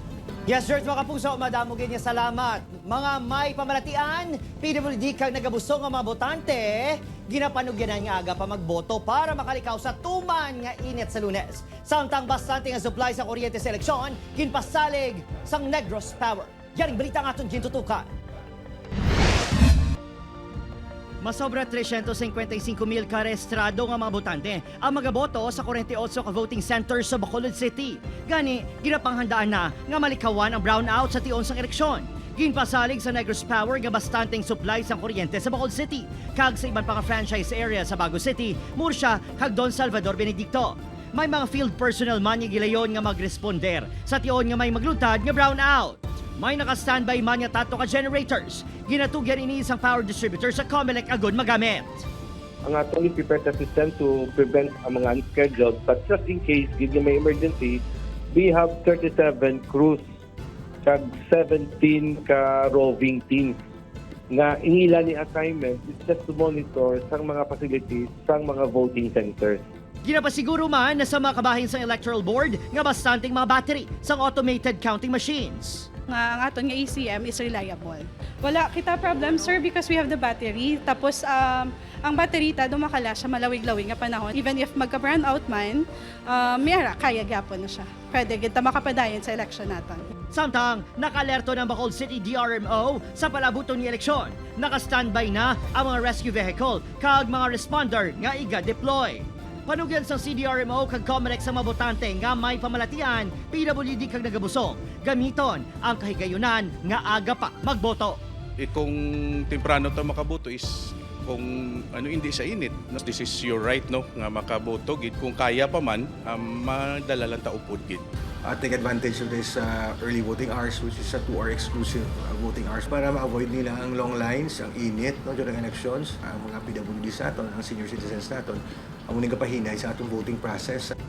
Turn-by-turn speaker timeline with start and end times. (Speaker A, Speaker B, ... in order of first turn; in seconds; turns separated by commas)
Speaker A: 0.5-18.1, Speaker A: 21.2-52.0, Speaker B: 52.6-60.0, Speaker B: 60.8-63.6, Speaker B: 64.3-69.6, Speaker A: 70.0-75.9, Speaker C: 76.1-90.0, Speaker A: 90.3-108.2, Speaker D: 108.6-110.7, Speaker D: 111.3-118.0, Speaker E: 118.5-131.0